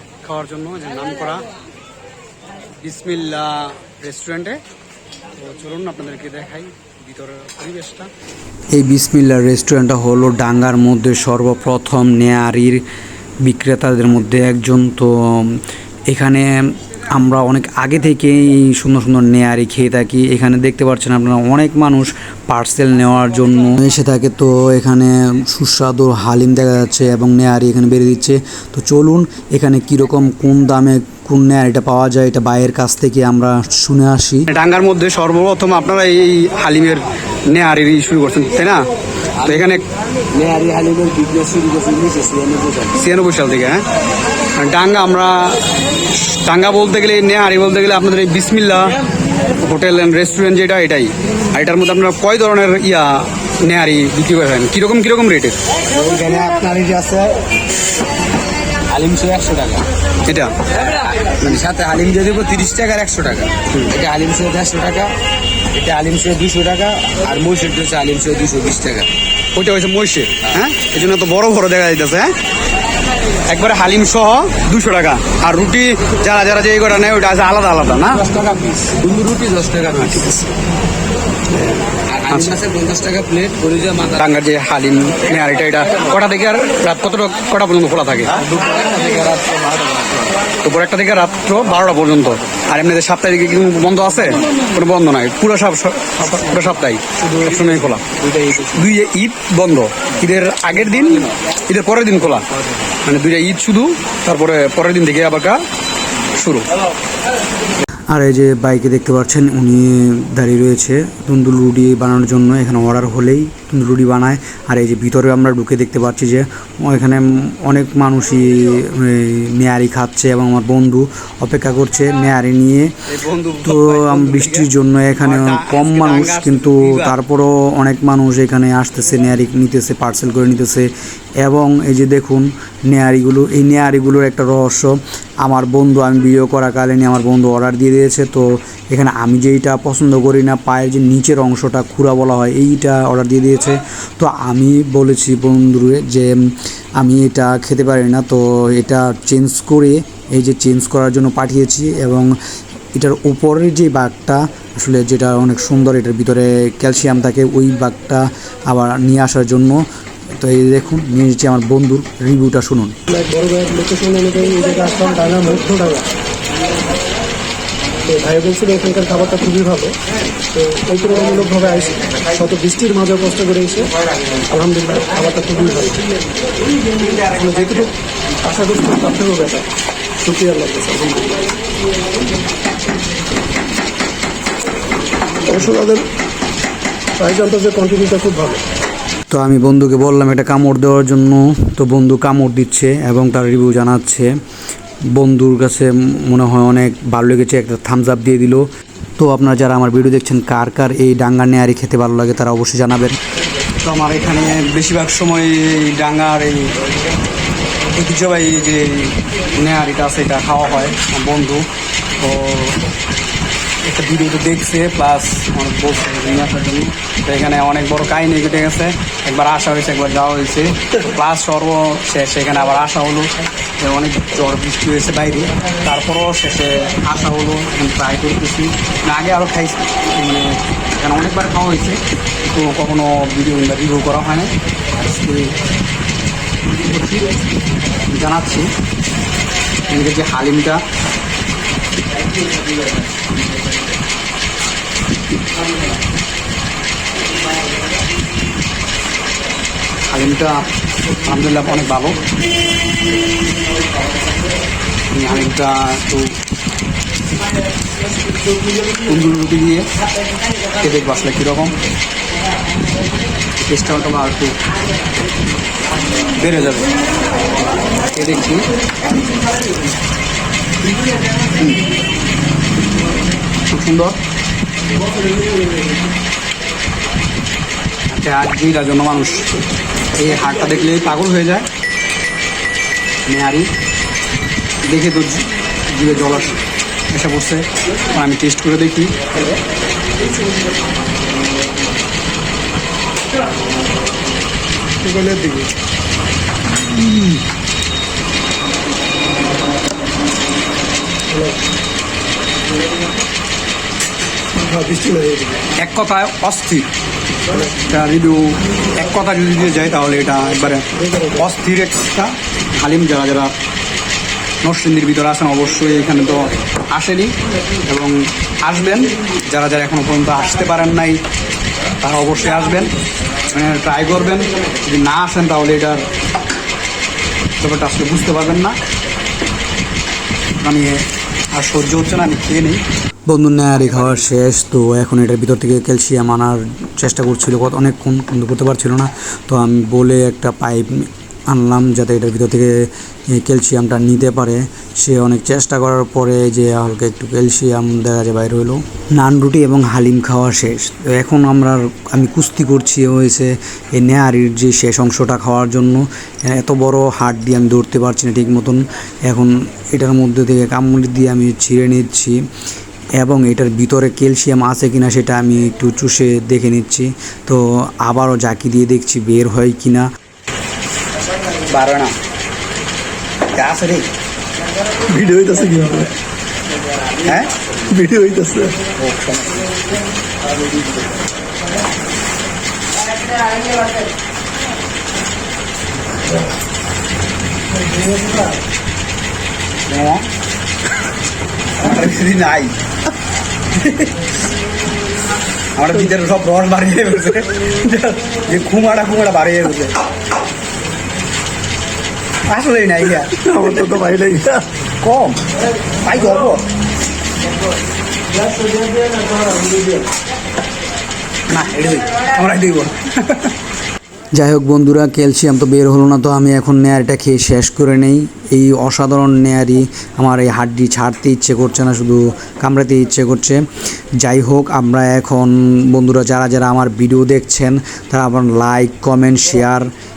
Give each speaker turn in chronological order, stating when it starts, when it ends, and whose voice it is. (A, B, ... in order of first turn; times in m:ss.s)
0:00.2-0:01.5 A
0:02.8-0:04.6 A
0:05.4-0:08.1 A
0:08.7-0:12.8 B
0:13.4-0:34.5 B
0:34.5-0:38.9 A
0:39.4-0:39.6 C
0:39.4-0:39.8 A
0:40.3-0:43.0 C
0:42.9-0:43.8 A
0:44.6-0:45.6 A
0:46.4-0:49.0 A
0:49.6-0:55.6 A
0:55.9-0:57.4 C
0:58.9-0:59.9 C
1:00.2-1:00.5 A
1:00.8-1:05.1 C
1:05.7-1:09.1 C
1:09.5-1:12.3 A
1:13.5-1:18.2 A
1:18.2-1:20.4 C
1:21.7-1:22.6 A
1:22.1-1:24.2 C
1:24.2-1:28.4 A
1:28.4-1:30.4 C
1:30.6-1:38.0 A
1:37.3-1:38.7 C
1:38.7-1:42.4 A
1:43.0-1:45.6 A
1:46.3-1:46.7 A
1:48.1-2:02.9 B
2:03.1-2:07.2 A
2:03.6-2:10.9 B
2:11.4-2:32.3 B
2:32.9-2:39.8 B
2:40.4-2:43.0 B
2:43.1-2:46.1 D
2:48.0-2:49.9 D
2:50.5-2:56.0 D
2:57.0-2:57.9 A
2:57.2-2:57.9 D
2:58.4-3:01.4 D
3:05.4-3:06.1 D
3:07.2-3:08.6 D
3:09.3-3:14.3 B
3:15.1-3:23.2 B
3:23.8-3:26.7 A
3:27.9-3:31.7 A
3:32.2-3:32.8 A
3:33.8-3:55.5 A
3:56.8-3:57.4 A
3:58.1-3:58.7 A
3:59.9-4:00.8 A
4:10.1-4:10.6 A
4:11.2-4:12.2 A
4:15.1-4:16.3 A
4:19.0-4:19.9 A
4:20.8-4:21.8 A
4:23.6-4:24.6 A
4:26.4-4:26.9 A
4:28.1-4:28.7 A
4:33.7-4:34.2 A
4:38.1-4:39.5 A
4:40.1-4:41.7 A
4:43.2-4:43.7 A
4:44.8-4:46.6 A
4:47.1-4:49.4 A
4:55.0-4:55.7 D
4:57.0-4:57.3 A
5:01.3-5:01.6 D
5:04.6-5:05.6 D
5:05.8-5:06.9 A
5:07.6-5:10.8 A
5:10.9-5:11.4 D
5:11.4-5:13.5 A
5:14.6-5:17.3 A
5:17.8-5:21.2 A
5:22.0-5:22.9 A
5:23.5-5:26.1 A
5:27.6-5:28.8 A
5:30.6-5:32.8 A
5:33.3-6:02.4 B
6:03.2-6:10.1 B
6:11.7-6:12.1 A
6:13.5-6:14.1 A
6:15.1-6:16.1 D
6:17.2-6:17.5 A
6:17.9-6:18.7 D
6:19.0-6:19.7 A
6:29.9-6:30.2 A
6:31.8-6:32.8 A
6:33.8-6:34.1 A
6:35.8-6:40.0 A
6:42.5-6:43.7 A
6:43.4-6:44.6 D
6:45.0-6:45.4 A
6:46.0-6:46.6 A
6:48.8-6:49.8 C
6:51.5-6:53.5 A
6:54.3-7:03.6 B
7:04.2-7:09.9 B